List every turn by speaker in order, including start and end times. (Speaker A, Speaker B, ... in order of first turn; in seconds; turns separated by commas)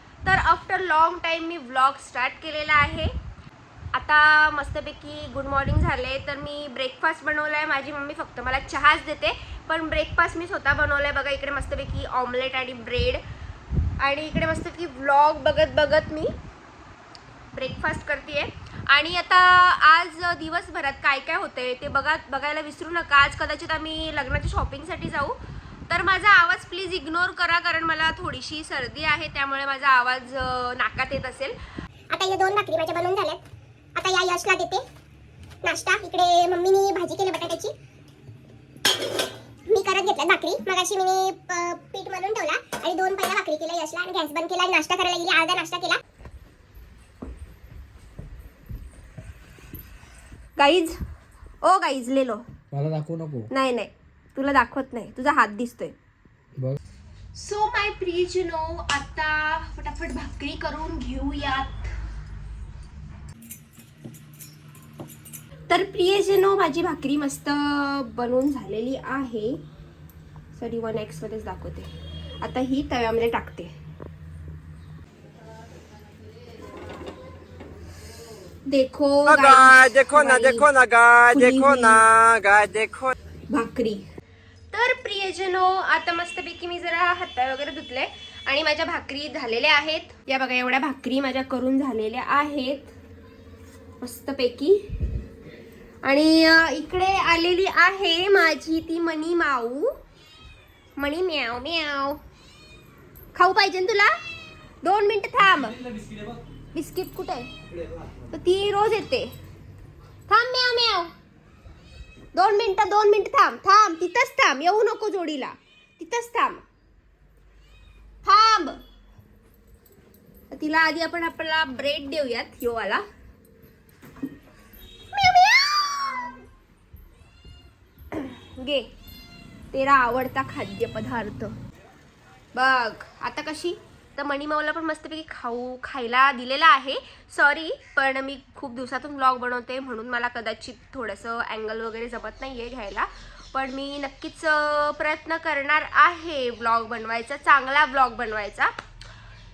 Speaker A: 0.2-3.1, Speaker A: 3.9-13.2, Speaker A: 14.0-16.3, Speaker A: 17.5-25.4, Speaker A: 25.9-31.6, Speaker B: 32.1-33.4, Speaker B: 34.0-34.8, Speaker B: 35.6-37.7, Speaker B: 39.7-46.0, Speaker A: 50.6-50.9, Speaker A: 51.6-52.4, Speaker C: 52.7-53.5, Speaker A: 53.5-55.9, Speaker A: 57.3-61.9, Speaker A: 65.7-69.6, Speaker A: 70.5-71.9, Speaker A: 72.4-73.7, Speaker A: 78.7-82.1, Speaker D: 79.4-83.1, Speaker A: 83.5-84.0, Speaker A: 84.7-92.9, Speaker A: 94.0-94.8, Speaker A: 96.0-99.9, Speaker A: 101.0-102.2, Speaker A: 103.3-104.1, Speaker A: 104.8-105.8, Speaker C: 105.5-106.4, Speaker A: 106.7-107.5, Speaker C: 107.7-108.1, Speaker A: 108.3-109.3, Speaker A: 110.3-111.1, Speaker A: 112.3-116.6, Speaker A: 118.2-118.8, Speaker A: 120.5-123.0, Speaker A: 125.1-126.4, Speaker A: 128.1-128.9, Speaker A: 129.7-131.5, Speaker A: 132.5-148.7